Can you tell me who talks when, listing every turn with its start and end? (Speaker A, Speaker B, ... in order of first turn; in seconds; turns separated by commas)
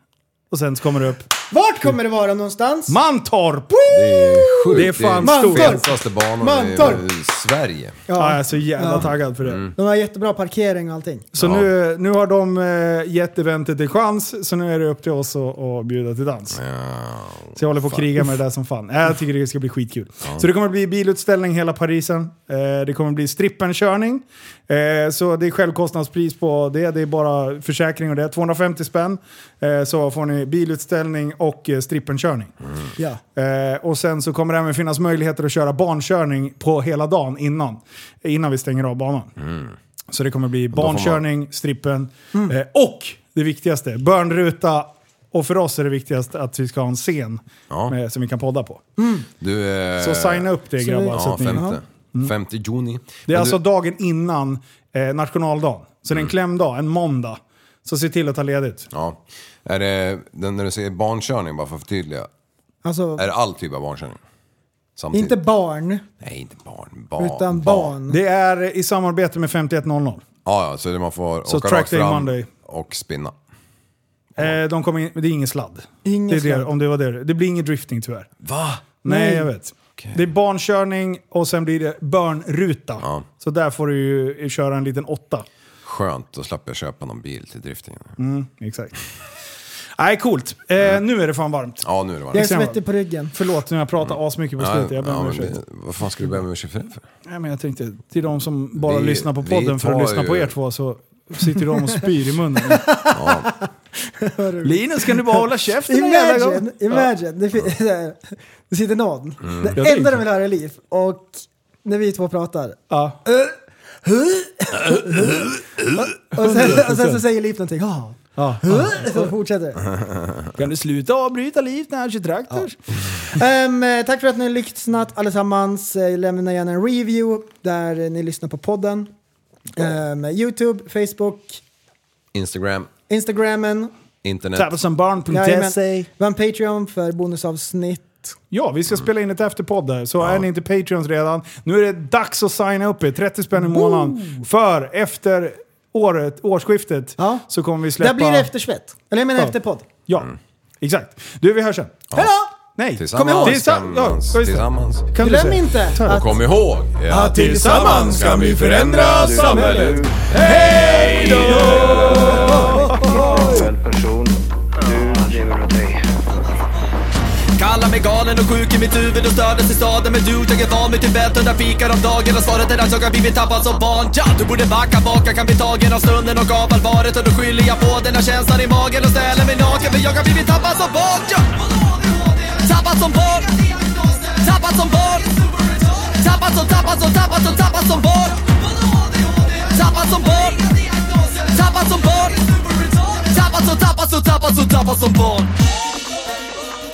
Speaker A: 0.5-1.4, Speaker B: 1.5-3.0, Speaker A: 2.9-5.9, Speaker C: 3.9-8.0, Speaker B: 4.5-7.0, Speaker B: 8.1-9.1, Speaker A: 8.2-9.7, Speaker C: 8.9-9.7, Speaker B: 9.8-11.3, Speaker A: 11.3-16.6, Speaker C: 11.4-11.7, Speaker C: 16.5-18.2, Speaker A: 17.6-32.5, Speaker A: 33.4-39.3, Speaker C: 39.4-39.8, Speaker A: 40.1-48.8, Speaker C: 40.7-41.2, Speaker B: 49.0-49.3, Speaker C: 49.4-50.5, Speaker A: 50.0-52.3, Speaker B: 50.8-51.8, Speaker C: 51.1-53.6, Speaker A: 53.3-58.9, Speaker C: 58.9-62.3, Speaker B: 62.8-63.3, Speaker C: 63.2-64.2, Speaker C: 65.0-65.4, Speaker B: 65.1-66.0, Speaker C: 66.2-68.0, Speaker B: 67.2-68.2, Speaker A: 68.1-70.2, Speaker C: 70.5-73.4, Speaker A: 71.5-72.5, Speaker A: 74.4-78.3, Speaker B: 76.0-76.7, Speaker C: 78.4-78.8, Speaker A: 79.0-85.5, Speaker B: 79.1-79.5, Speaker C: 83.0-83.3, Speaker C: 85.8-88.2, Speaker A: 88.2-89.0, Speaker A: 90.0-92.8, Speaker C: 91.8-92.5, Speaker B: 92.3-93.3, Speaker A: 93.3-95.6, Speaker C: 94.6-97.0, Speaker A: 97.3-102.9, Speaker C: 98.8-100.6, Speaker B: 102.7-119.9, Speaker C: 103.1-103.5, Speaker A: 104.6-107.0, Speaker C: 109.5-109.8, Speaker A: 109.8-110.2, Speaker A: 112.9-113.2, Speaker A: 116.4-117.2, Speaker A: 118.4-119.2, Speaker A: 120.5-122.8, Speaker B: 123.3-129.1, Speaker B: 129.8-131.6, Speaker C: 132.3-132.9, Speaker B: 133.1-133.9, Speaker C: 134.2-134.7, Speaker A: 134.6-135.8, Speaker B: 135.3-138.3, Speaker A: 138.5-148.5, Speaker B: 143.6-144.4, Speaker B: 147.2-147.5, Speaker B: 148.0-149.9, Speaker A: 150.1-152.0, Speaker B: 152.1-152.5, Speaker A: 152.8-156.2, Speaker C: 152.9-155.1, Speaker B: 153.1-153.6, Speaker B: 155.2-156.4, Speaker C: 156.1-162.8, Speaker B: 157.1-163.6, Speaker A: 157.2-163.7, Speaker D: 159.2-160.2, Speaker D: 161.6-166.1, Speaker E: 167.6-195.5